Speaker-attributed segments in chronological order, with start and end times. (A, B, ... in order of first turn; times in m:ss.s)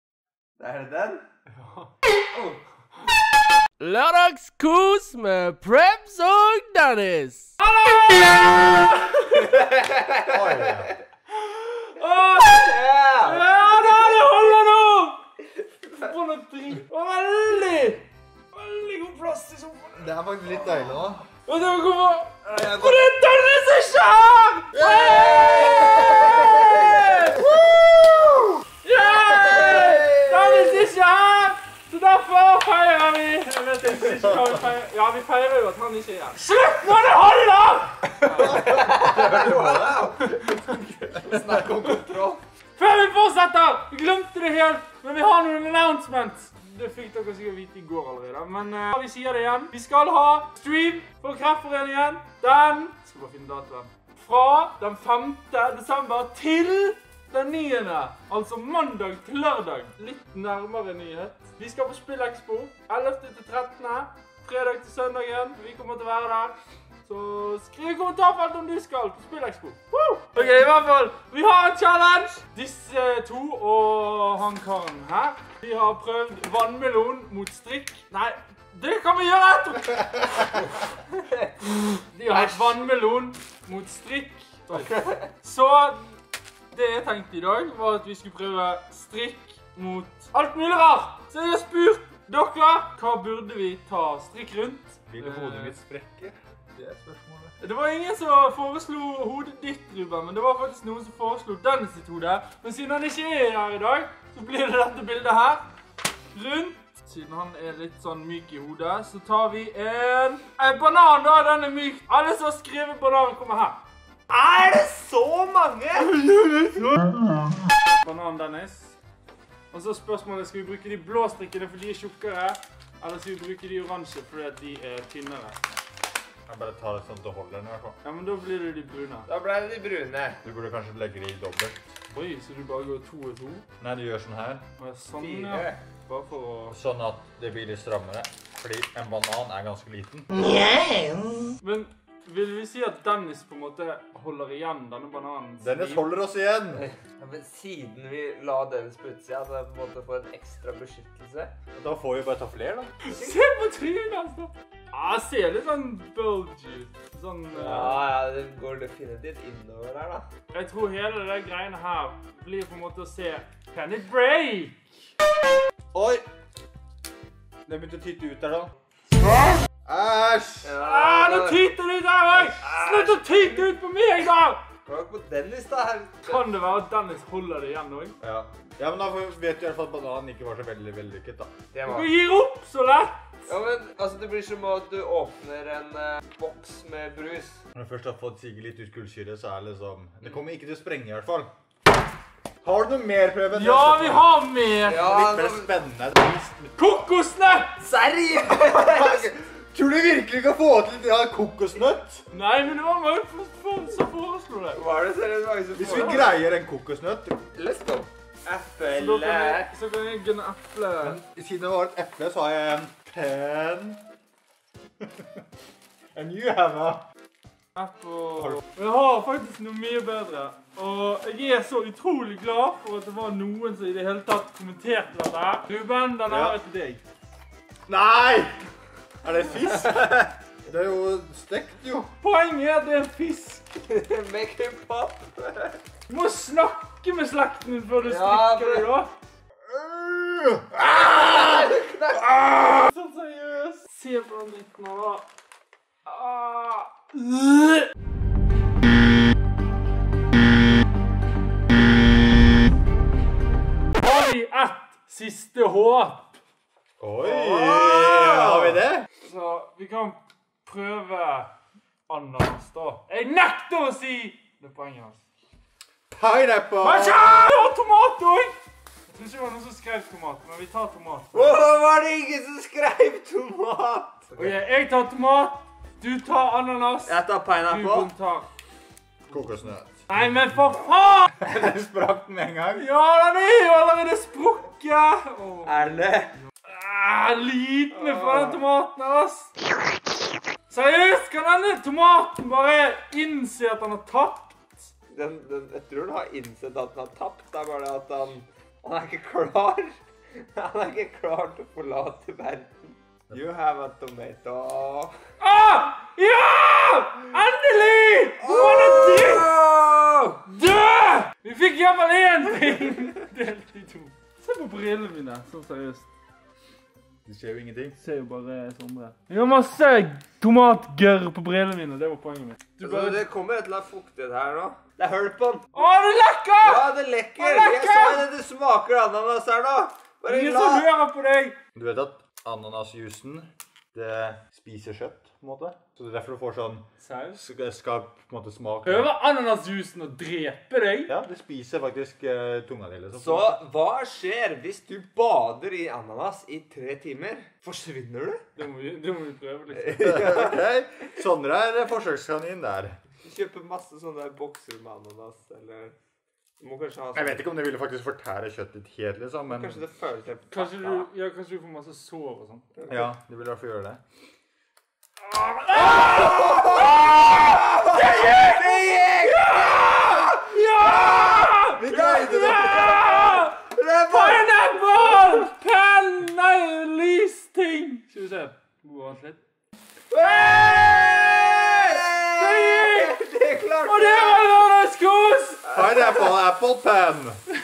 0:00.6-0:01.2 A
0:01.6-0:01.9 B
0:03.8-0:07.5 C
0:07.6-0:09.6 B
0:09.4-0:10.9 A
0:10.2-0:10.9 D
0:11.3-0:15.2 B
0:12.2-0:13.5 A
0:15.9-0:20.2 B
0:20.0-0:21.2 D
0:21.4-0:27.5 B
0:24.9-0:27.0 A
0:27.4-0:27.9 D
0:28.8-0:38.6 B
0:29.2-0:30.8 A
0:38.3-0:41.6 D
0:38.4-0:40.6 A
0:41.1-0:42.4 A
0:42.8-1:20.5 B
1:21.6-1:26.2 B
1:22.3-1:22.8 A
1:24.7-1:25.3 A
1:26.7-1:35.8 B
1:35.1-1:37.6 D
1:37.6-1:45.7 B
1:46.3-1:53.8 B
1:54.3-1:56.2 A
1:56.0-1:57.3 B
1:58.0-1:59.0 B
1:59.7-2:05.6 B
2:06.5-2:08.0 D
2:08.0-2:09.3 B
2:09.3-2:10.4 A
2:10.4-2:11.8 D
2:12.1-2:13.6 B
2:13.8-2:14.6 D
2:14.8-2:16.8 B
2:15.2-2:15.8 A
2:16.7-2:21.4 D
2:21.6-2:26.1 B
2:25.6-2:26.8 D
2:26.7-2:31.5 A
2:31.8-2:32.9 D
2:33.0-2:38.1 B
2:33.1-2:33.4 A
2:37.5-2:40.3 A
2:40.5-2:44.8 B
2:45.9-2:46.2 D
2:47.7-2:48.7 D
2:49.8-2:50.7 D
2:50.6-2:51.6 A
2:50.8-2:54.6 B
2:52.4-2:53.7 A
2:54.9-2:56.4 A
2:56.2-2:58.2 B
2:58.2-3:01.5 D
3:01.7-3:02.1 A
3:01.8-3:03.3 B
3:03.5-3:07.6 A
3:07.7-3:11.5 D
3:12.6-3:14.3 D
3:13.5-3:15.1 B
3:14.8-3:15.8 A
3:14.9-3:16.7 D
3:16.8-3:17.8 B
3:17.8-3:19.3 A
3:18.6-3:22.2 D
3:22.3-3:24.8 B
3:24.7-3:26.4 A
3:25.8-3:27.4 D
3:27.5-3:29.7 A
3:28.9-3:31.2 B
3:31.0-3:34.0 D
3:35.0-3:35.4 D
3:36.2-3:37.0 D
3:37.8-3:47.0 B
3:38.4-3:38.6 D
3:46.3-3:46.6 D
3:47.9-3:48.6 D
3:49.2-3:52.1 D
3:52.2-3:53.8 B
3:53.8-3:55.8 A
3:56.1-3:59.1 B
3:58.0-3:58.9 A
3:59.7-4:01.7 D
4:01.1-4:02.3 A
4:02.6-4:05.2 B
4:06.1-4:07.9 B
4:14.0-4:16.4 B
4:17.0-4:19.1 D
4:17.2-4:18.7 A
4:19.2-4:21.5 B
4:22.1-4:25.2 B
4:26.1-4:27.3 D
4:26.8-4:28.6 B
4:29.1-4:31.6 B
4:31.3-4:34.5 A
4:34.4-4:38.5 B
4:37.1-4:38.1 A
4:39.3-4:40.0 D
4:40.1-4:41.4 B
4:41.4-4:42.9 D
4:42.8-4:46.0 B
4:45.6-4:46.4 A
4:46.6-4:49.5 B
4:47.9-4:48.6 A
4:50.7-4:54.9 B
4:55.1-5:05.1 A
5:05.4-5:09.5 B
5:08.4-5:10.4 A
5:10.5-5:16.1 B
5:17.3-5:18.0 D
5:18.0-5:23.2 B
5:22.8-5:25.7 A
5:25.7-5:28.3 B
5:26.6-5:30.9 A
5:30.3-5:31.6 B
5:31.8-5:39.1 D
5:37.0-5:37.4 B
5:38.8-5:41.1 B
5:41.1-5:43.6 D
5:43.1-5:48.4 A
5:48.6-5:50.4 B
5:49.8-5:50.6 A
5:50.0-5:53.0 D
5:53.2-5:56.0 A
5:56.6-5:57.5 A
5:57.2-5:59.8 D
5:59.5-6:01.1 A
6:00.5-6:02.7 B
6:02.8-6:03.0 A
6:02.9-6:04.0 D
6:05.2-6:13.6 B
6:05.7-6:14.5 A
6:11.8-6:12.8 D
6:14.1-6:19.4 B
6:15.1-6:15.4 A
6:20.1-6:24.5 A
6:20.3-6:23.2 B
6:23.8-6:25.6 B
6:25.7-6:26.3 A
6:25.7-6:27.4 D